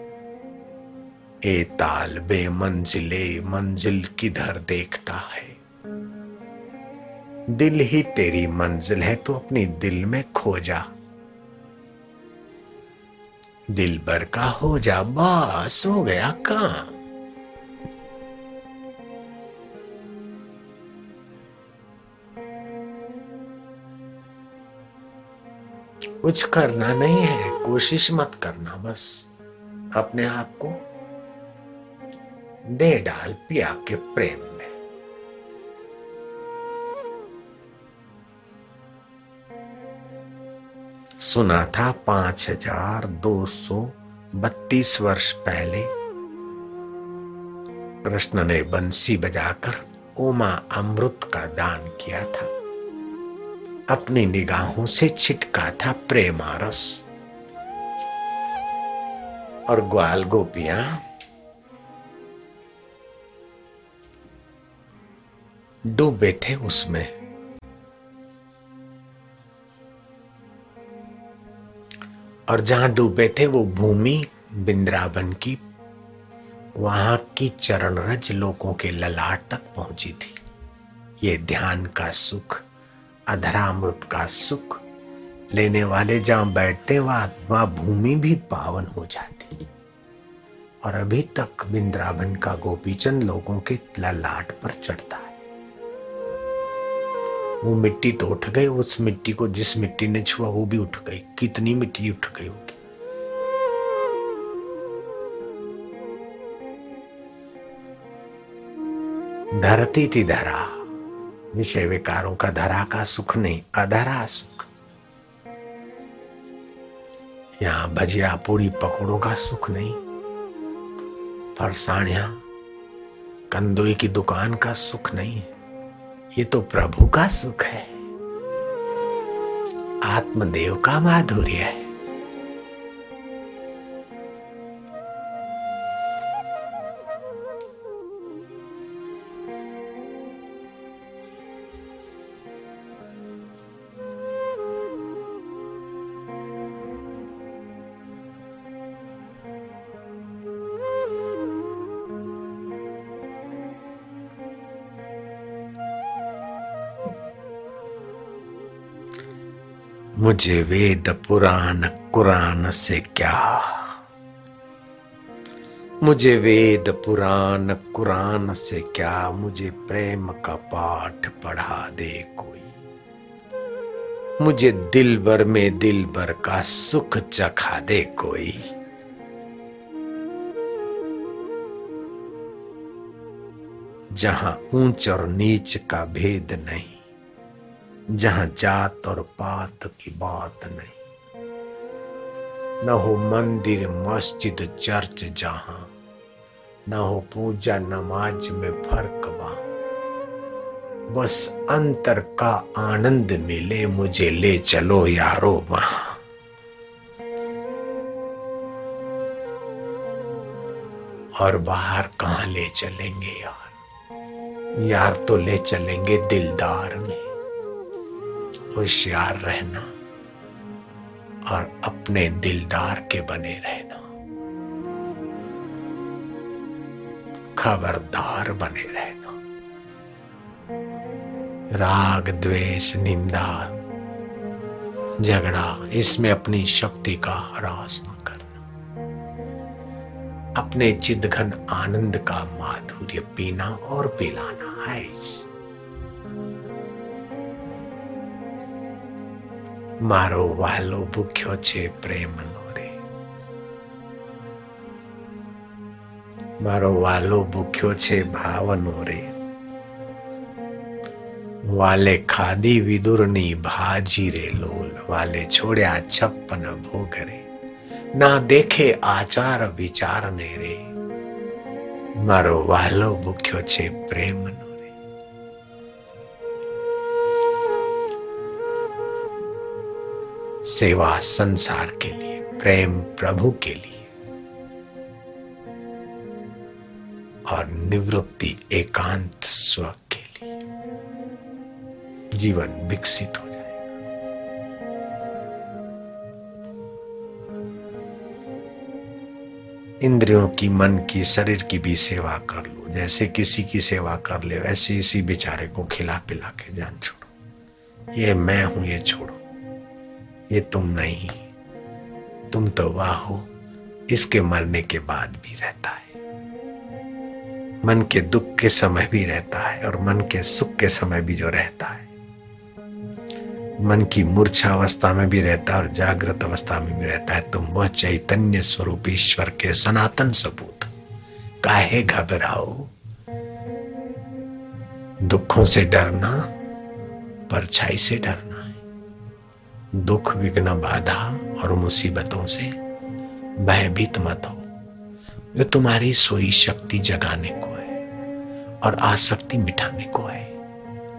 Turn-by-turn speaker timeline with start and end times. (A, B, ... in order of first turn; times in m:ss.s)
0:01.4-0:05.6 A
0:07.5-0:10.9 A
0:13.7-0:17.0 A
0:26.2-0:29.3 A
0:30.0-0:30.8 A
0:32.7-0:34.7 A
0:41.2-0:45.9 A
0:48.0-0:52.5 A
0:53.9-0:57.0 A
0:59.7-1:01.0 A
1:05.9-1:07.1 A
1:12.5-1:15.6 A
1:16.8-1:20.4 A
1:21.2-1:22.6 A
1:23.3-1:24.8 A
1:25.5-1:29.6 A
1:30.8-1:35.4 A
1:37.6-1:42.8 A
1:49.6-1:50.8 A
1:51.5-1:54.7 A
1:57.6-2:00.0 A
2:01.6-2:02.4 A
2:03.5-2:05.5 A
2:06.4-2:07.9 A
2:10.0-2:11.9 A
2:40.2-2:44.0 A
2:46.0-2:52.7 A
2:54.4-2:58.7 A
3:04.2-3:07.0 A
3:08.2-3:11.0 A
3:12.8-3:15.9 A
3:16.9-3:19.6 A
3:21.1-3:26.2 A
3:31.4-3:33.7 A
3:34.8-3:37.3 A
3:38.7-3:39.9 A
3:41.5-3:44.0 A
3:47.6-3:49.4 A
3:51.8-3:53.7 A
3:55.2-3:58.6 A
4:00.6-4:05.5 A
4:10.1-4:12.9 A
4:16.6-4:19.3 A
4:21.7-4:27.4 A
4:28.2-4:30.8 A
4:32.3-4:34.9 A
4:40.7-4:44.1 A
4:47.5-4:50.5 A
4:52.4-4:53.8 A
5:00.0-5:07.3 A
5:08.2-5:09.4 A
5:10.5-5:11.5 A
5:12.5-5:13.5 A
5:14.1-5:16.2 A
5:17.8-5:22.1 A
5:23.8-5:30.9 A
5:31.6-5:32.9 A
5:35.2-5:36.5 A
5:37.5-5:38.8 A
5:39.9-5:42.8 A
5:43.6-5:44.7 A
5:45.6-5:48.0 A
5:48.8-5:50.6 A